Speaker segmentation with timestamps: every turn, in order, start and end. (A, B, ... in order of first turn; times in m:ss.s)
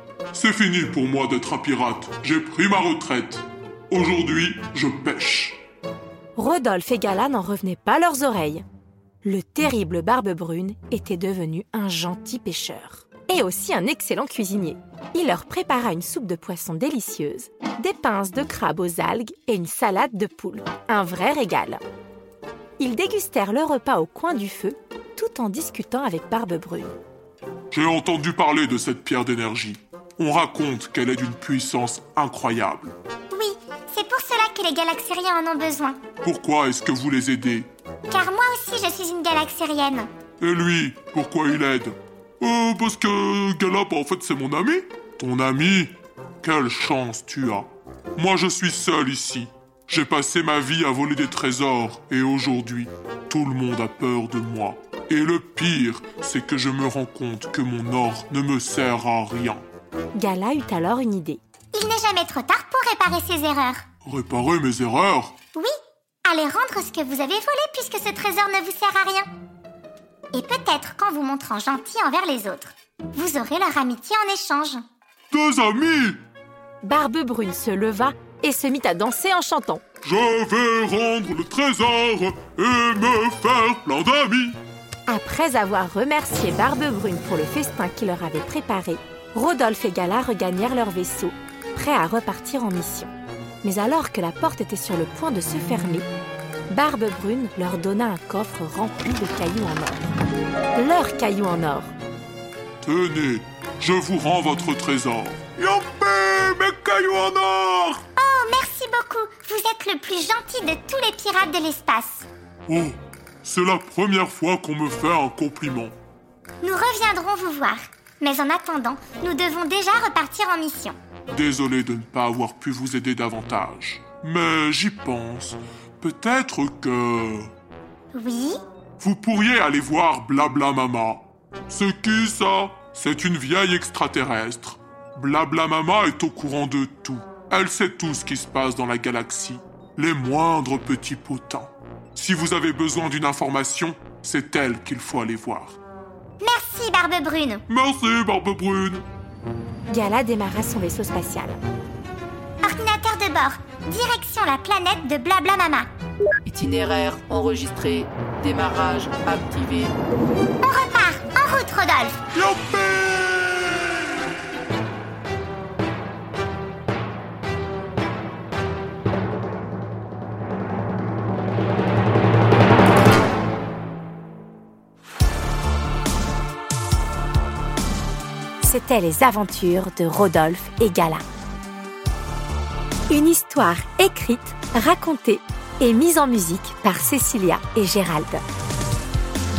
0:00.3-0:05.6 A
0:06.4-0:08.6 B
0:09.2-0:21.8 B
0:22.8-0:27.0 B
0:27.7-0:33.0 A
0:33.3-0:36.0 C
0:36.2-0:37.7 A
0:38.1-0:40.1 C
0:40.4-0:59.7 A
1:00.2-1:01.4 B
1:01.7-1:03.8 C
1:04.0-1:05.4 A
1:06.2-1:09.3 C
1:10.3-1:14.8 C
1:15.3-1:16.2 A
1:16.8-1:19.8 B
1:20.0-1:24.6 A
1:25.1-1:36.1 B
1:36.7-1:40.1 B
1:40.8-1:41.9 B
1:42.8-1:48.0 A
1:48.2-1:52.3 C
1:52.7-1:56.0 A
1:56.6-2:01.0 C
2:01.3-2:07.5 A
2:08.1-2:08.6 C
2:09.0-2:25.8 A
2:26.4-2:27.6 C
2:27.7-2:29.1 A
2:29.9-2:31.6 B
2:32.6-2:35.9 C
2:36.4-2:40.0 D
2:40.6-2:42.2 C
2:42.3-2:44.0 A
2:58.6-3:01.2 B
3:03.1-3:08.4 B